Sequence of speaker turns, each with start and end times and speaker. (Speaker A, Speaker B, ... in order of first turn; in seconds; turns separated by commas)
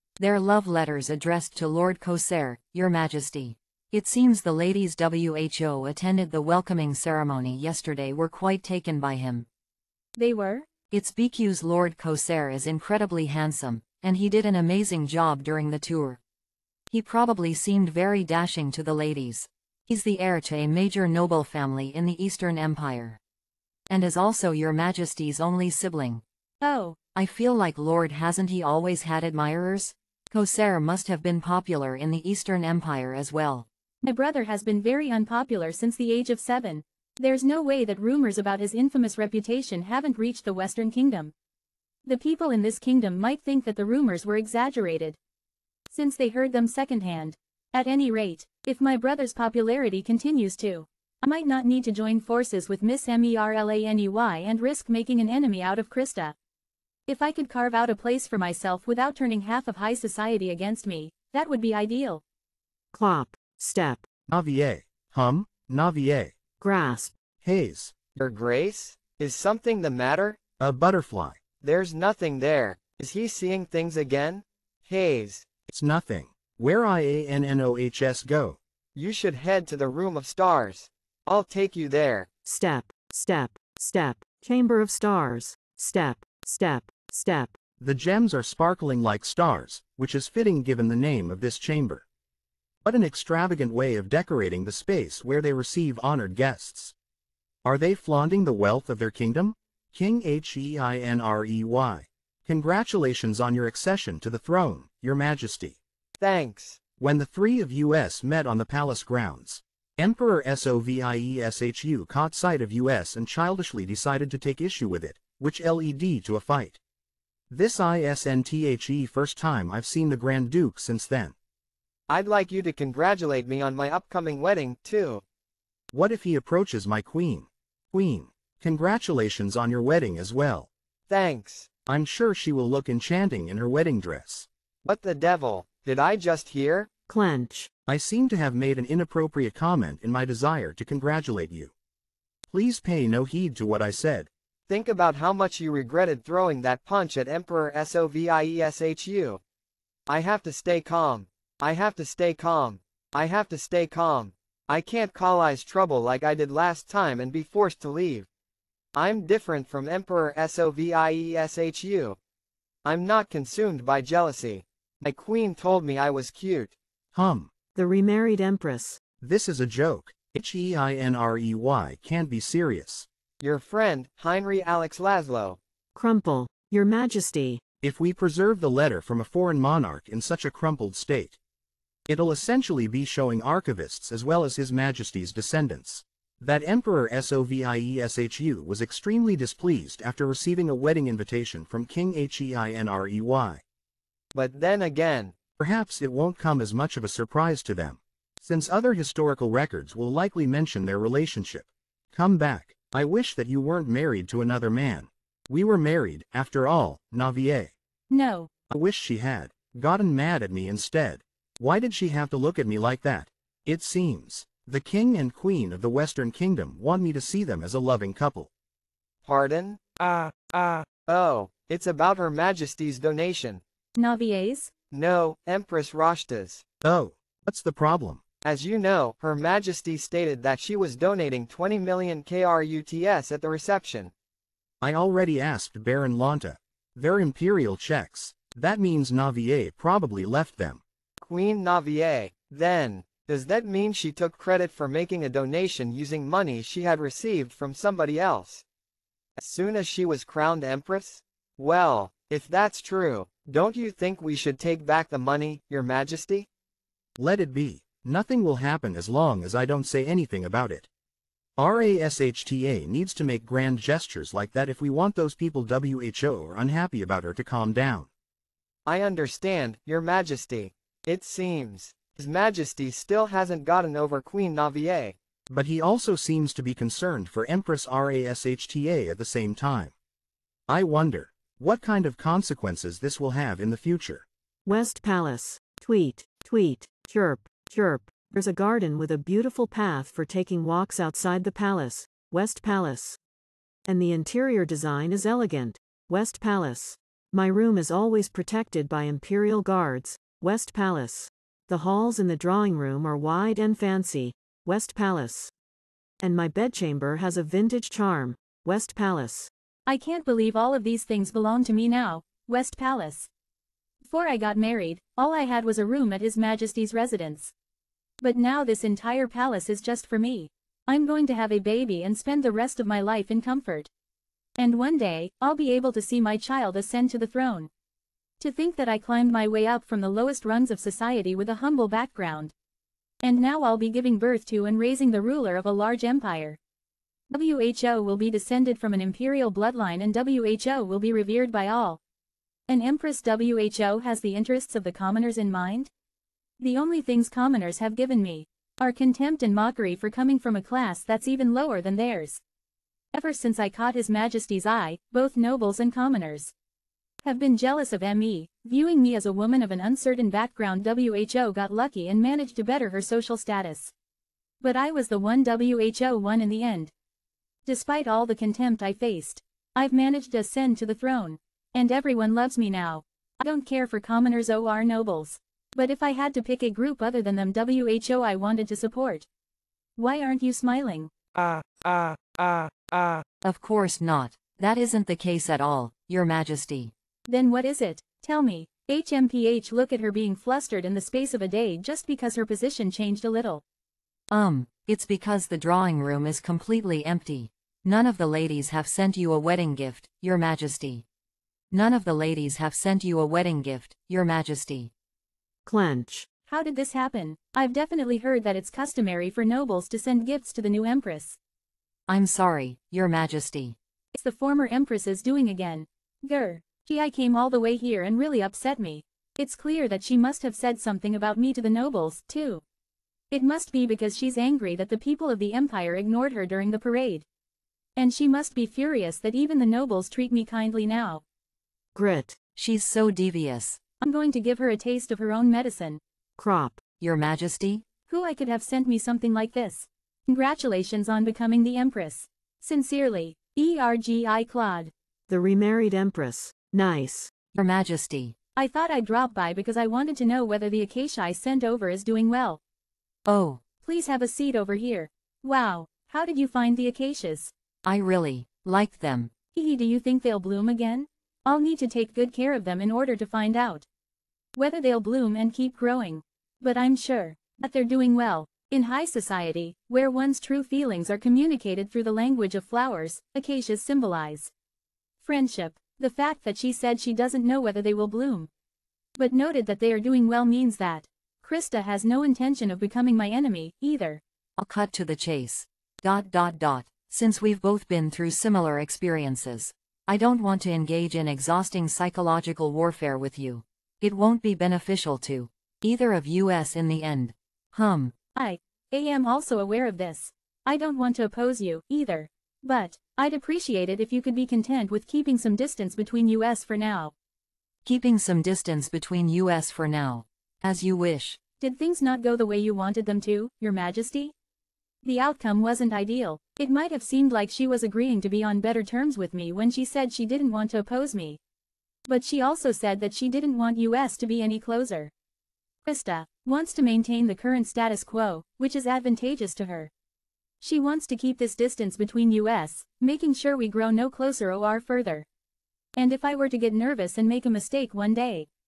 Speaker A: 0.2-9.5, Speaker B: 10.2-10.7, Speaker A: 10.9-16.2, Speaker A: 16.9-23.2, Speaker A: 23.9-26.2, Speaker B: 26.6-27.0, Speaker A: 27.1-33.7, Speaker B: 34.0-41.3, Speaker B: 42.0-45.2, Speaker B: 45.9-56.4, Speaker B: 57.1-62.2, Speaker C: 62.9-64.1, Speaker D: 64.3-66.3, Speaker C: 66.6-67.2, Speaker D: 67.4-67.9, Speaker E: 68.2-70.4, Speaker D: 70.6-71.4, Speaker E: 71.6-75.5, Speaker D: 75.7-78.6, Speaker E: 79.0-82.3, Speaker C: 82.5-87.6, Speaker D: 87.8-92.0, Speaker D: 92.8-96.9, Speaker D: 97.6-105.8, Speaker E: 106.2-106.8, Speaker D: 107.0-116.8, Speaker D: 117.5-121.3, Speaker E: 122.1-125.2, Speaker D: 125.9-130.7, Speaker E: 131.1-131.7, Speaker D: 131.9-134.5, Speaker E: 134.8-136.9, Speaker C: 137.1-137.7, Speaker D: 137.9-141.7, Speaker D: 142.5-144.3, Speaker E: 144.7-149.4, Speaker E: 150.1-158.3, Speaker E: 158.9-162.2, Speaker E: 162.8-166.7, Speaker D: 167.1-167.5, Speaker C: 167.8-169.0, Speaker D: 169.2-173.1, Speaker E: 173.4-175.6, Speaker C: 175.9-177.6, Speaker D: 177.8-181.4, Speaker D: 182.1-193.6, Speaker E: 194.3-195.4, Speaker D: 195.6-207.7, Speaker B: 208.1-208.5, Speaker D: 208.7-218.5, Speaker E: 219.2-219.8, Speaker F: 220.0-220.9, Speaker E: 221.1-223.6, Speaker B: 224.0-224.7, Speaker E: 224.9-226.6, Speaker D: 226.8-228.2, Speaker E: 228.4-234.1, Speaker D: 234.8-240.8, Speaker E: 241.2-248.6, Speaker E: 249.4-256.5, Speaker D: 257.2-260.9, Speaker D: 261.6-268.1, Speaker E: 268.9-275.2, Speaker D: 275.5-279.9, Speaker D: 280.7-284.3, Speaker C: 284.7-293.2, Speaker C: 293.9-305.5, Speaker C: 306.2-309.5, Speaker B: 309.9-313.3, Speaker B: 314.0-317.5, Speaker B: 318.2-323.9, Speaker B: 324.6-327.7, Speaker B: 328.4-332.5, Speaker B: 333.2-336.6, Speaker B: 337.3-342.0, Speaker B: 342.7-345.9, Speaker B: 346.6-352.4, Speaker B: 353.1-356.5, Speaker B: 357.2-363.9, Speaker B: 364.6-366.9, Speaker B: 367.6-379.3, Speaker B: 380.0-381.1, Speaker F: 381.4-383.2, Speaker A: 383.4-386.9, Speaker B: 387.3-393.6, Speaker A: 394.3-401.0, Speaker A: 401.7-404.9, Speaker C: 405.7-406.3, Speaker B: 406.5-411.4, Speaker A: 412.1-413.8, Speaker B: 414.1-422.6, Speaker B: 423.3-427.2, Speaker B: 428.0-431.2, Speaker C: 431.9-432.4, Speaker A: 432.6-433.8, Speaker B: 434.0-436.0, Speaker C: 436.4-436.8, Speaker A: 437.0-437.9, Speaker B: 438.1-444.9, Speaker C: 445.3-447.3, Speaker A: 447.5-448.4, Speaker B: 448.6-452.6, Speaker A: 453.3-453.6, Speaker B: 453.8-457.5, Speaker A: 457.9-459.3, Speaker B: 459.5-463.9, Speaker B: 464.6-474.5, Speaker B: 475.2-478.5, Speaker B: 479.2-484.2, Speaker A: 484.6-498.1, Speaker B: 498.4-507.1, Speaker A: 507.9-511.4, Speaker B: 511.6-514.3, Speaker B: 515.0-521.4, Speaker B: 522.1-525.1, Speaker B: 525.9-529.9, Speaker B: 530.6-535.3, Speaker B: 536.0-538.5